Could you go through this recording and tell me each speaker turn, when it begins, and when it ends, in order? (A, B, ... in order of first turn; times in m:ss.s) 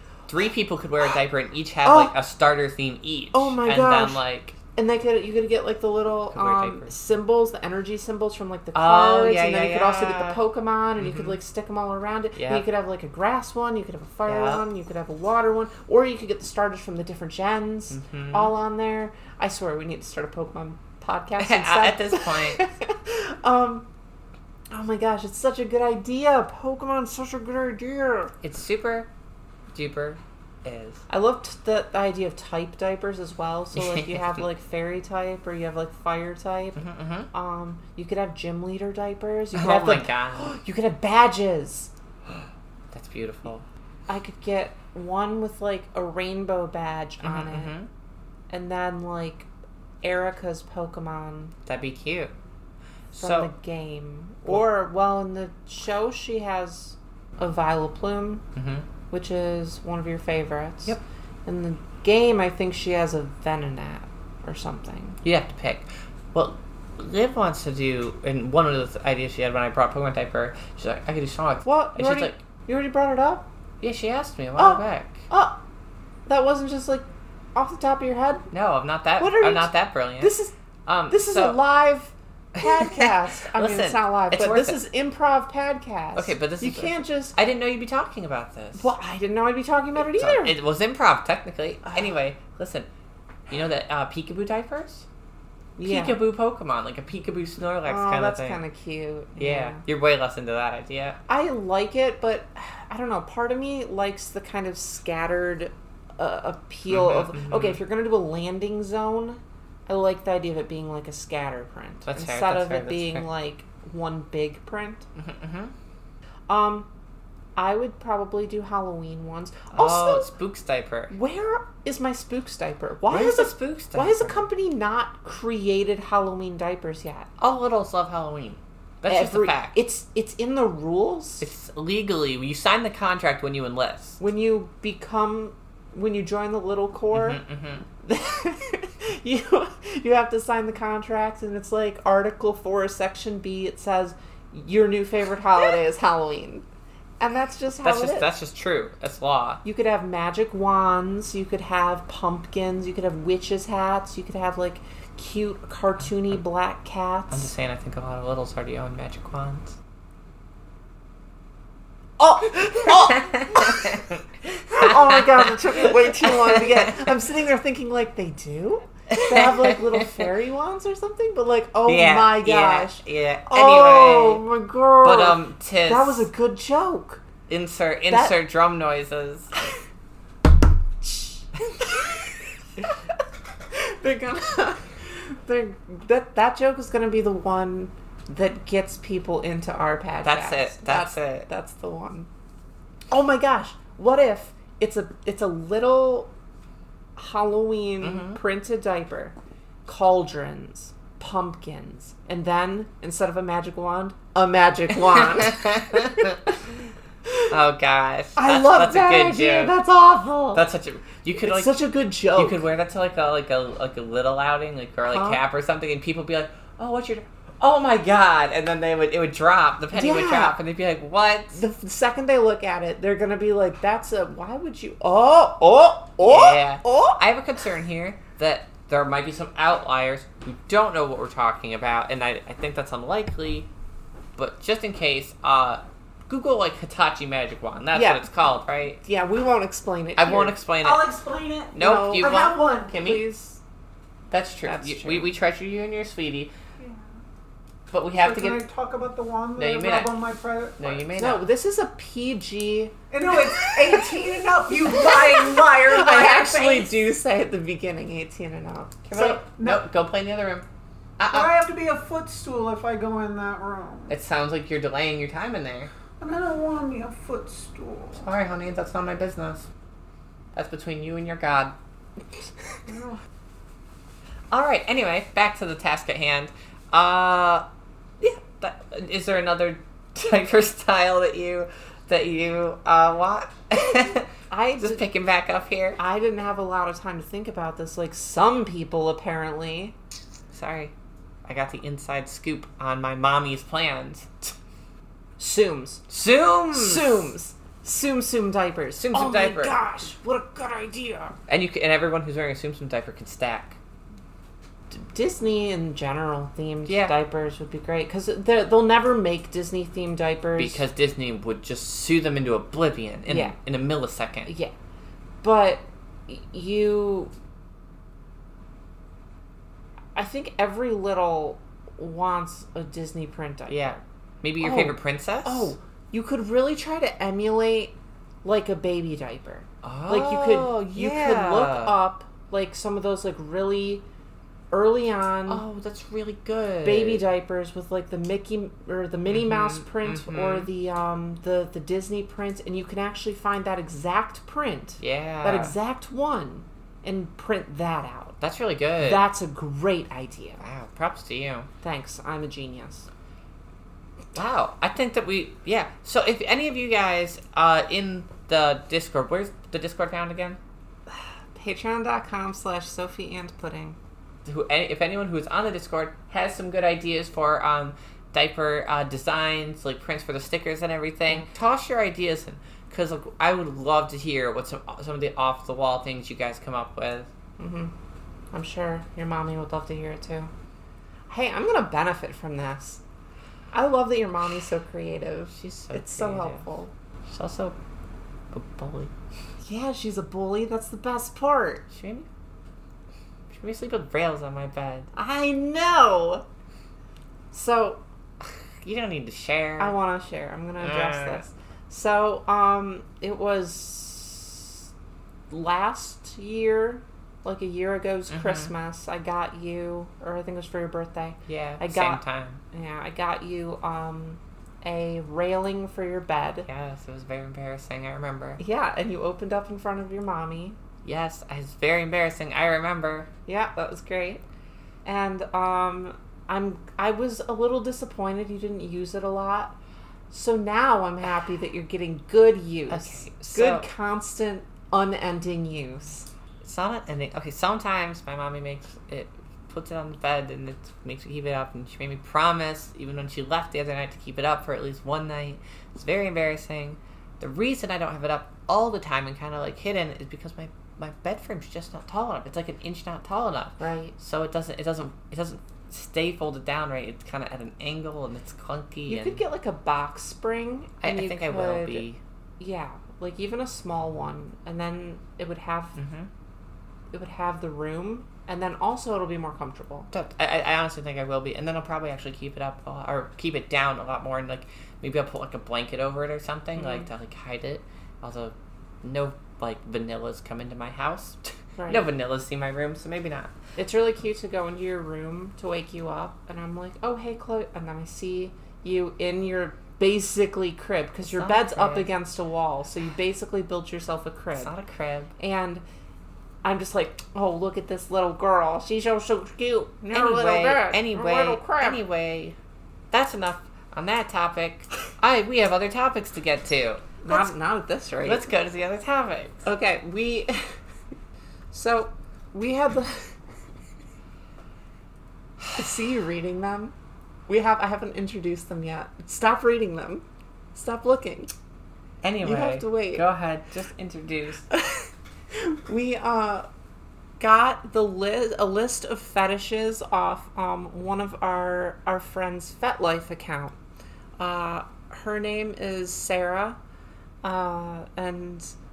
0:00.3-0:04.6 A
0:01.8-0:02.1 B
0:03.3-0:04.2 B
0:04.7-0:23.9 B
0:06.3-0:06.9 A
0:08.7-0:10.4 A
0:11.0-0:11.4 A
0:12.4-0:12.6 A
0:14.2-0:14.6 A
0:17.9-0:18.5 A
0:21.4-0:22.6 A
0:24.7-0:28.3 B
0:28.4-0:29.1 A
0:29.7-0:31.0 A
0:31.1-0:41.9 B
0:33.7-0:34.4 A
0:36.8-0:37.3 A
0:39.5-0:40.5 A
0:42.9-0:43.6 A
0:44.1-0:47.7 B
0:47.2-0:47.9 A
0:48.5-0:49.5 B
0:50.0-0:51.5 B
0:51.6-0:52.3 A
0:53.1-0:53.5 A
0:53.1-0:58.4 B
0:58.5-0:58.8 A
0:59.1-1:05.2 B
1:05.2-1:12.4 A
1:11.6-1:13.5 B
1:13.8-1:15.2 A
1:14.6-1:15.6 B
1:16.3-1:18.5 B
1:18.5-1:20.3 A
1:19.2-1:20.5 B
1:20.8-1:21.6 A
1:21.1-1:27.4 B
1:22.6-1:24.8 A
1:26.2-1:28.9 A
1:28.7-1:30.5 B
1:30.0-1:32.9 A
1:33.5-1:35.0 A
1:35.8-1:36.2 B
1:35.8-1:38.6 A
1:37.8-1:39.8 B
1:39.4-1:41.2 A
1:41.3-1:55.0 B
1:46.9-1:47.8 A
1:52.1-1:53.3 A
1:55.2-1:55.7 A
1:56.5-1:56.9 B
1:57.6-2:00.3 B
1:59.7-2:01.1 A
2:01.1-2:07.3 B
2:03.1-2:04.5 A
2:07.4-2:09.8 A
2:09.0-2:11.4 B
2:11.4-2:14.2 A
2:14.2-2:17.4 B
2:17.1-2:17.8 A
2:18.0-2:26.6 B
2:27.2-2:28.3 B
2:27.8-2:29.6 A
2:29.6-2:37.5 B
2:37.3-2:39.8 A
2:42.2-2:57.2 B
2:42.9-2:47.1 A
2:49.1-2:50.2 A
2:51.9-2:54.4 A
2:55.0-2:56.3 A
2:57.5-2:59.6 A
2:58.1-2:58.4 B
3:01.0-3:02.9 B
3:03.7-3:12.3 B
3:10.2-3:11.5 A
3:13.1-3:16.3 B
3:17.2-3:19.3 B
3:18.0-3:18.4 A
3:19.8-3:26.6 B
3:25.1-3:26.5 A
3:27.5-3:29.8 A
3:28.4-3:30.6 B
3:30.5-3:41.6 A
3:31.4-3:32.6 B
3:35.0-3:35.4 B
3:39.9-3:40.6 B
3:41.5-3:47.2 B
3:46.2-3:53.7 A
3:54.4-3:59.0 A
3:57.9-3:58.3 B
3:59.0-4:00.6 B
4:00.2-4:01.0 A
4:00.8-4:02.9 C
4:01.8-4:03.2 A
4:01.8-4:03.6 B
4:04.3-4:06.5 A
4:04.6-4:05.3 B
4:07.9-4:08.6 A
4:08.1-4:11.0 C
4:09.6-4:10.2 A
4:10.8-4:11.4 A
4:11.2-4:13.0 B
4:13.1-4:16.9 C
4:13.6-4:14.1 B
4:14.7-4:19.4 B
4:19.1-4:20.7 A
4:19.2-4:19.9 C
4:21.2-4:21.6 A
4:21.3-4:24.2 C
4:24.1-4:25.9 A
4:26.2-4:28.3 C
4:28.2-4:29.6 A
4:30.5-4:31.8 A
4:32.9-4:33.2 C
4:34.5-4:37.6 A
4:38.2-4:46.0 A
4:44.5-4:45.0 B
4:46.0-4:50.0 B
4:50.5-4:50.9 A
4:51.4-4:54.5 A
4:55.4-4:56.0 B
4:56.1-4:57.3 A
4:56.7-5:01.4 B
4:59.0-4:59.8 A
5:01.5-5:03.8 A
5:04.9-5:10.8 B
5:06.9-5:07.1 A
5:10.6-5:14.5 A
5:13.2-5:13.6 B
5:14.5-5:14.7 B
5:15.4-5:17.3 B
5:20.2-5:24.0 B
5:23.7-5:25.7 A
5:24.6-5:34.0 B
5:29.8-5:32.0 A
5:34.7-5:35.6 B
5:35.5-5:37.2 A
5:36.8-5:48.4 B
5:39.3-5:40.7 A
5:45.0-5:45.7 A
5:48.4-5:49.2 A
5:49.0-5:50.6 B
5:50.6-5:51.7 A
5:51.8-5:53.1 B
5:54.3-6:00.6 A
6:01.1-6:04.0 B
6:04.4-6:17.3 A
6:17.6-6:17.9 B
6:18.5-6:20.5 B
6:21.3-6:23.0 B
6:23.7-6:26.9 B
6:25.5-6:26.7 A
6:27.3-6:27.8 A
6:28.5-6:29.1 A
6:29.6-6:31.8 B
6:31.9-6:32.3 A
6:33.5-6:35.1 A
6:35.1-6:36.4 B
6:37.5-6:38.0 B
6:38.8-6:39.9 A
6:39.8-6:44.8 B
6:40.8-6:41.4 A
6:45.5-6:56.7 B
6:48.3-6:48.7 A
6:51.5-6:52.6 A
6:56.7-6:58.6 A
6:58.6-7:00.8 B
7:01.0-7:03.3 A
7:03.5-7:04.4 B
7:05.0-7:09.7 B
7:10.3-7:16.3 B
7:12.9-7:13.9 A
7:16.6-7:39.4 A
7:33.8-7:34.1 B
7:39.1-7:42.1 B
7:41.0-7:42.2 A
7:42.6-7:46.0 B
7:46.0-7:46.3 A
7:47.1-7:50.1 B
7:50.1-8:03.5 A
7:56.8-7:57.0 B
8:01.8-8:02.0 B
8:03.8-8:14.7 B
8:11.3-8:12.1 A
8:14.6-8:15.3 A
8:15.4-8:15.8 B
8:16.6-8:22.0 B
8:20.1-8:22.6 A
8:23.1-8:27.5 A
8:27.2-8:28.4 B
8:28.2-8:29.6 A
8:29.6-8:30.7 B
8:31.7-8:33.3 B
8:35.7-8:36.9 B
8:37.5-8:41.5 B
8:42.2-8:44.7 A
8:42.4-8:43.2 B
8:44.7-8:46.7 B
8:47.4-8:53.8 B
8:54.4-8:56.8 B
8:57.4-8:58.7 B